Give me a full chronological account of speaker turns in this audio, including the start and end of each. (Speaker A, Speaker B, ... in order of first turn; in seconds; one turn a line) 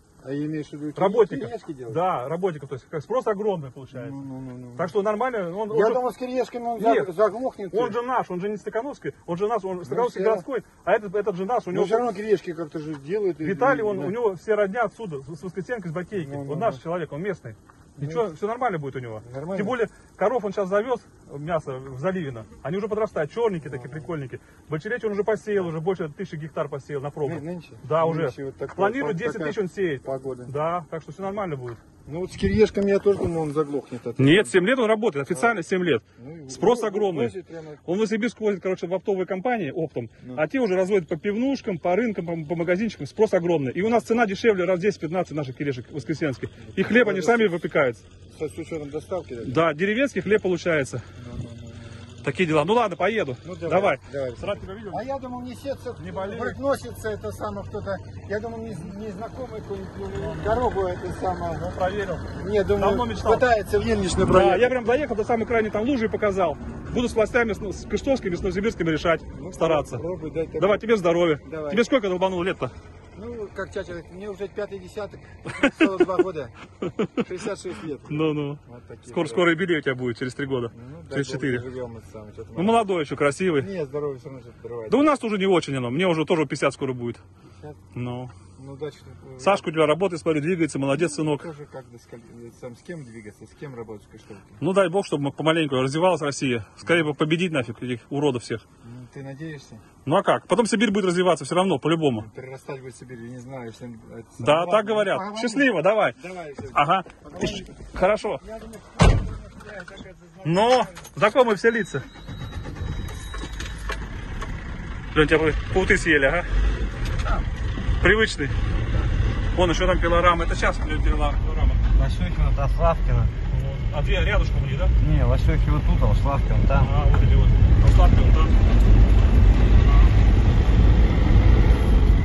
Speaker A: 0.2-2.0
Speaker B: 0.9-4.2
Speaker A: 3.9-4.9
Speaker B: 4.8-6.0
Speaker A: 5.7-8.0
Speaker B: 6.8-7.1
Speaker B: 7.7-12.0
Speaker A: 9.8-10.4
Speaker A: 11.7-14.2
Speaker B: 13.4-31.8
Speaker A: 16.2-16.8
Speaker A: 18.0-18.3
Speaker A: 19.2-19.8
Speaker A: 23.6-24.1
Speaker A: 27.2-30.5
Speaker A: 32.0-34.6
Speaker B: 34.2-37.3
Speaker A: 35.3-35.6
Speaker A: 36.1-37.8
Speaker B: 37.8-48.0
Speaker A: 46.6-47.6
Speaker A: 48.3-49.6
Speaker B: 49.4-51.0
Speaker A: 51.1-52.2
Speaker B: 52.2-55.0
Speaker A: 53.4-61.8
Speaker B: 56.0-56.6
Speaker B: 60.1-60.6
Speaker B: 61.6-63.5
Speaker A: 62.4-64.8
Speaker B: 64.2-70.0
Speaker A: 69.3-70.9
Speaker B: 70.6-72.7
Speaker A: 71.4-71.9
Speaker A: 73.1-76.5
Speaker B: 75.5-75.9
Speaker B: 76.8-77.2
Speaker A: 77.2-79.5
Speaker B: 78.1-81.6
Speaker A: 80.7-82.8
Speaker B: 82.5-83.7
Speaker A: 83.5-85.2
Speaker B: 84.9-87.2
Speaker B: 87.9-88.3
Speaker A: 88.5-89.7
Speaker B: 89.4-91.5
Speaker A: 90.9-94.6
Speaker B: 94.6-98.6
Speaker A: 98.8-99.8
Speaker B: 100.0-102.2
Speaker A: 102.1-111.1
Speaker B: 104.4-106.2
Speaker B: 106.7-108.4
Speaker B: 110.4-112.0
Speaker B: 115.1-116.5
Speaker B: 118.0-118.6
Speaker B: 119.5-121.8
Speaker C: 121.9-123.3
Speaker B: 123.5-124.9
Speaker C: 125.0-126.9
Speaker B: 126.8-128.6
Speaker B: 129.8-130.1